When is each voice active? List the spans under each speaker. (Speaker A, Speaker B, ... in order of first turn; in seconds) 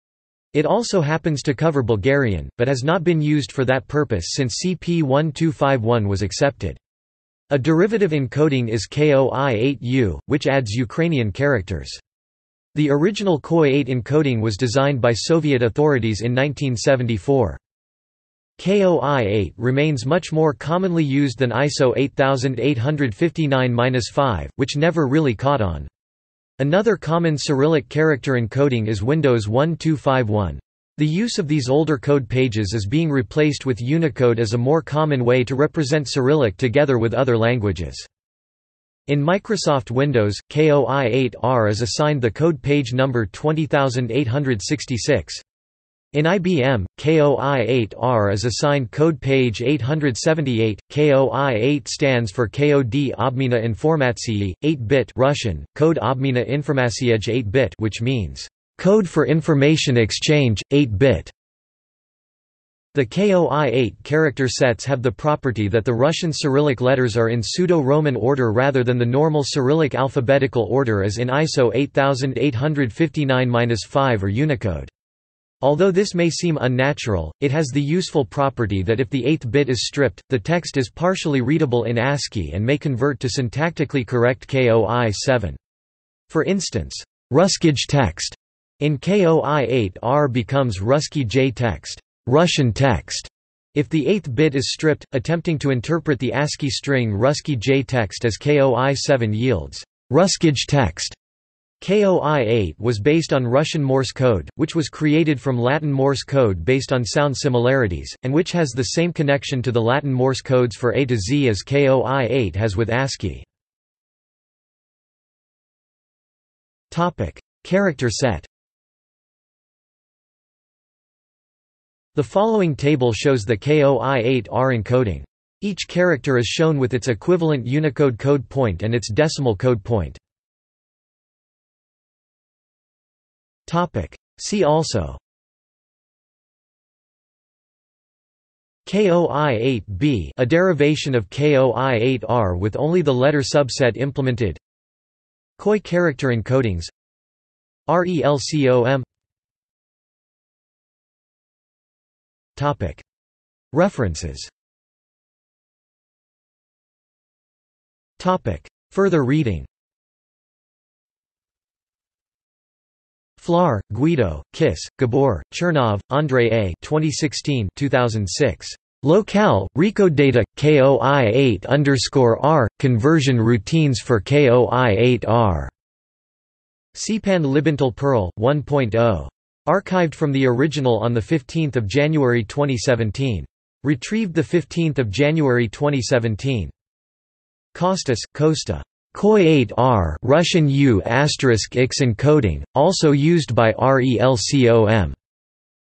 Speaker A: 0.5-6.8, 7.5-12.0, 12.7-17.6, 18.6-25.9, 26.6-38.1, 39.1-45.4, 46.1-61.3, 62.9-74.9, 75.6-85.6, 86.3-101.2, 101.8-113.5, 116.9-118.5, 122.1-130.2, 133.7-135.2, 138.8-144.6, 145.6-146.9, 147.9-149.0, 152.6-153.0, 153.7-154.5, 158.2-159.7, 163.4-175.7, 176.9-186.7, 187.7-195.2